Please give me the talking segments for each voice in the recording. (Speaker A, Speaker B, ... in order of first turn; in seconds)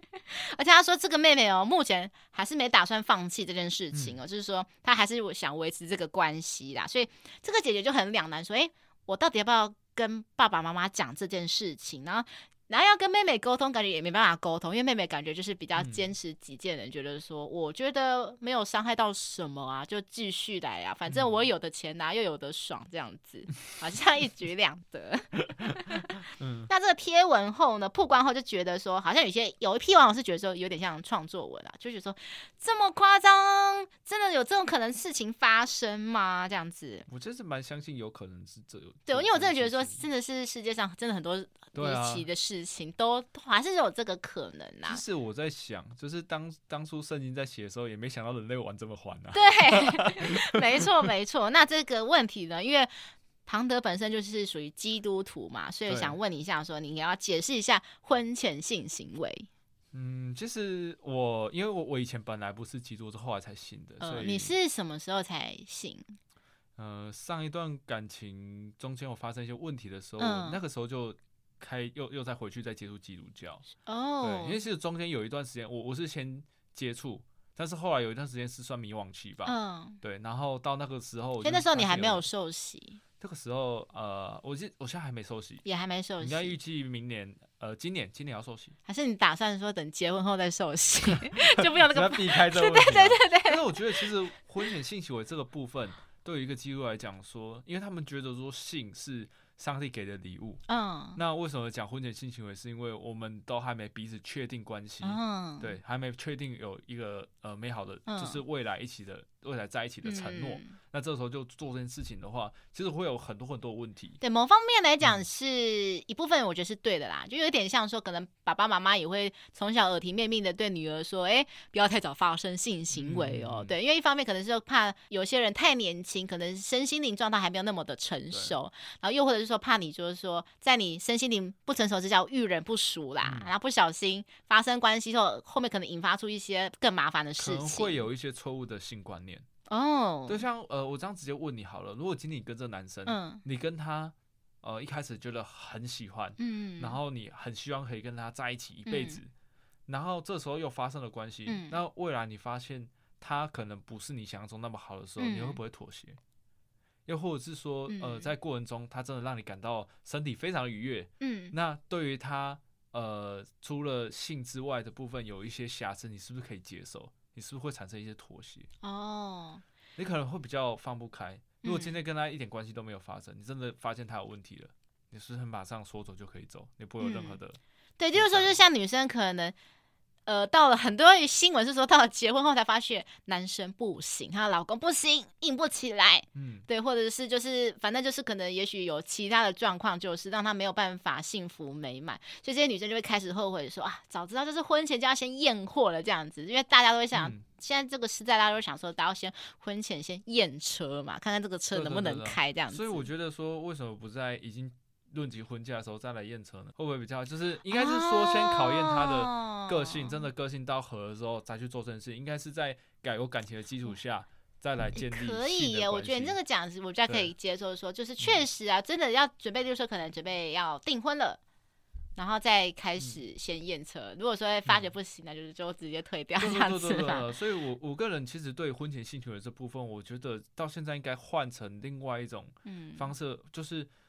Speaker A: 0.2-37.0, 39.1-45.0, 49.3-52.9, 53.5-59.5, 64.0-66.1, 70.2-70.6, 73.8-74.6, 79.4-80.0, 81.4-83.0, 85.6-86.5, 88.9-94.1, 100.7-101.2, 105.0-105.7, 108.1-108.4, 110.0-110.8, 114.2-138.0, 139.7-140.4, 143.1-143.4, 146.4-147.0, 148.8-149.2, 151.5-151.8, 155.2-155.6, 157.9-158.3, 161.2-161.5, 168.8-169.6, 171.6-171.9, 177.0-177.4, 178.0-179.5, 180.2-203.1, 207.7-210.2, 214.9-221.4, 222.2-227.3, 232.7-233.1
Speaker B: 15.8-16.1, 21.1-21.4, 26.4-26.7, 37.1-40.0, 41.7-42.2, 44.9-50.8, 55.9-56.2, 59.9-64.5, 66.8-73.7, 74.2-82.2, 83.2-85.6, 86.2-88.7, 91.6-100.6, 101.2-114.2, 122.9-123.7, 128.3-128.6, 133.2-133.5, 137.4-139.4, 140.3-149.3, 149.9-156.2, 157.1-168.7, 170.0-177.6, 178.1-178.6, 186.3-186.7, 197.1-197.4, 201.7-216.3, 226.4-233.9